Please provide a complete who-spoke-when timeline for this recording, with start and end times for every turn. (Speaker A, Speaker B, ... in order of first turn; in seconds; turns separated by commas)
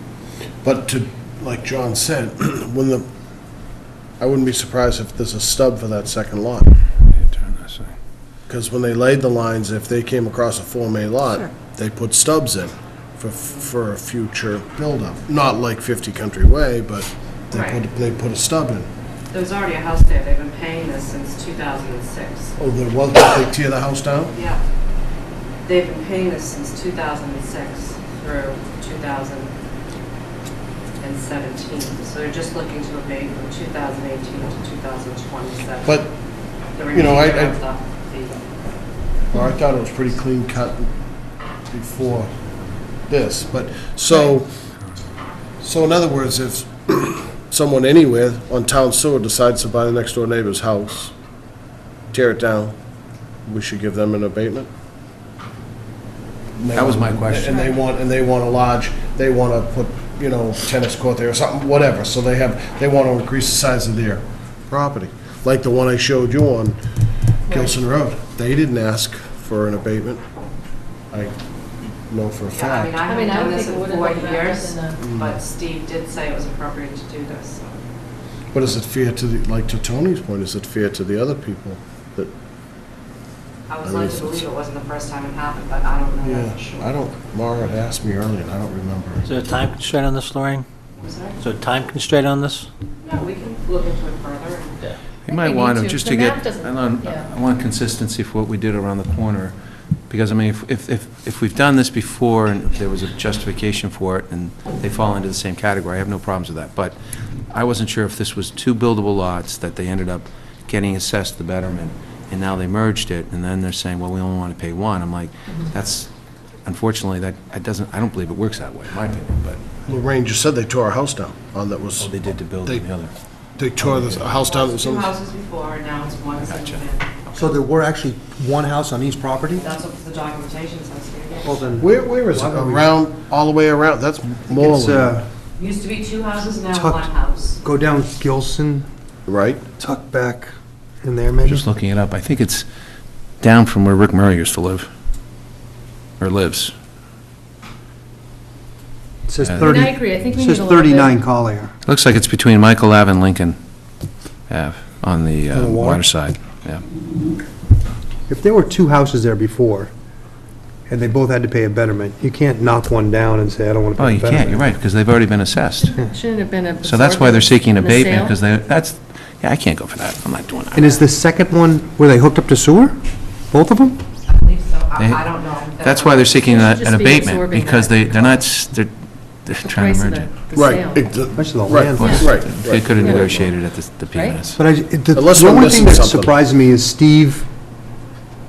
Speaker A: 0.6-3.0, Speaker A: 4.2-6.7, Speaker B: 7.1-7.9, Speaker A: 8.5-18.9, Speaker C: 13.4-13.7, Speaker C: 17.5-17.8, Speaker C: 19.3-22.5, Speaker A: 22.6-24.3, Speaker C: 24.3-24.6, Speaker C: 25.6-29.5, Speaker C: 31.0-36.1, Speaker A: 35.9-36.1, Speaker C: 36.7-38.5, Speaker A: 36.9-37.6, Speaker A: 39.3-40.9, Speaker A: 41.7-42.3, Speaker A: 43.0-44.5, Speaker A: 45.6-51.1, Speaker A: 52.1-52.7, Speaker A: 53.5-54.7, Speaker A: 56.5-66.8, Speaker B: 56.7-57.6, Speaker A: 67.5-70.2, Speaker D: 67.5-67.8, Speaker A: 71.1-71.4, Speaker A: 72.0-73.0, Speaker C: 72.5-77.8, Speaker D: 73.0-75.0, Speaker A: 75.0-75.3, Speaker A: 78.5-82.3, Speaker C: 83.7-87.0, Speaker A: 83.8-84.4, Speaker A: 86.2-89.3, Speaker E: 89.2-90.7, Speaker C: 91.0-91.4, Speaker E: 91.4-92.7, Speaker C: 93.0-94.9, Speaker B: 95.2-99.5, Speaker D: 95.3-97.3, Speaker B: 100.1-107.0, Speaker B: 107.5-116.1, Speaker B: 116.6-119.6, Speaker A: 119.9-122.9, Speaker B: 122.0-123.1, Speaker A: 123.6-125.1, Speaker B: 123.8-124.3, Speaker C: 124.4-127.4, Speaker B: 126.4-126.8, Speaker F: 127.3-129.7, Speaker C: 129.6-131.6, Speaker F: 131.4-132.9, Speaker A: 131.8-135.2, Speaker F: 134.6-135.2, Speaker C: 135.6-137.6, Speaker F: 136.7-138.9, Speaker A: 139.3-139.6, Speaker F: 139.8-140.5, Speaker F: 141.0-141.7, Speaker B: 141.4-142.7, Speaker B: 143.4-144.9, Speaker B: 146.2-146.7, Speaker F: 149.3-151.7, Speaker B: 149.4-149.8, Speaker D: 149.6-151.1, Speaker B: 151.8-153.6, Speaker B: 154.5-156.8, Speaker F: 155.5-156.1, Speaker F: 158.3-159.9, Speaker F: 160.9-164.7, Speaker B: 164.0-165.9, Speaker D: 165.8-168.4, Speaker B: 166.8-171.0, Speaker F: 170.7-173.0, Speaker F: 173.5-174.0, Speaker C: 174.3-176.6, Speaker B: 175.0-178.9, Speaker D: 176.4-178.5, Speaker B: 179.4-180.4, Speaker D: 179.6-181.1, Speaker A: 180.5-183.5, Speaker F: 181.4-182.3, Speaker B: 181.9-184.6, Speaker D: 182.0-182.4, Speaker D: 183.0-183.4, Speaker D: 184.1-184.4, Speaker F: 184.6-187.5, Speaker A: 185.1-186.3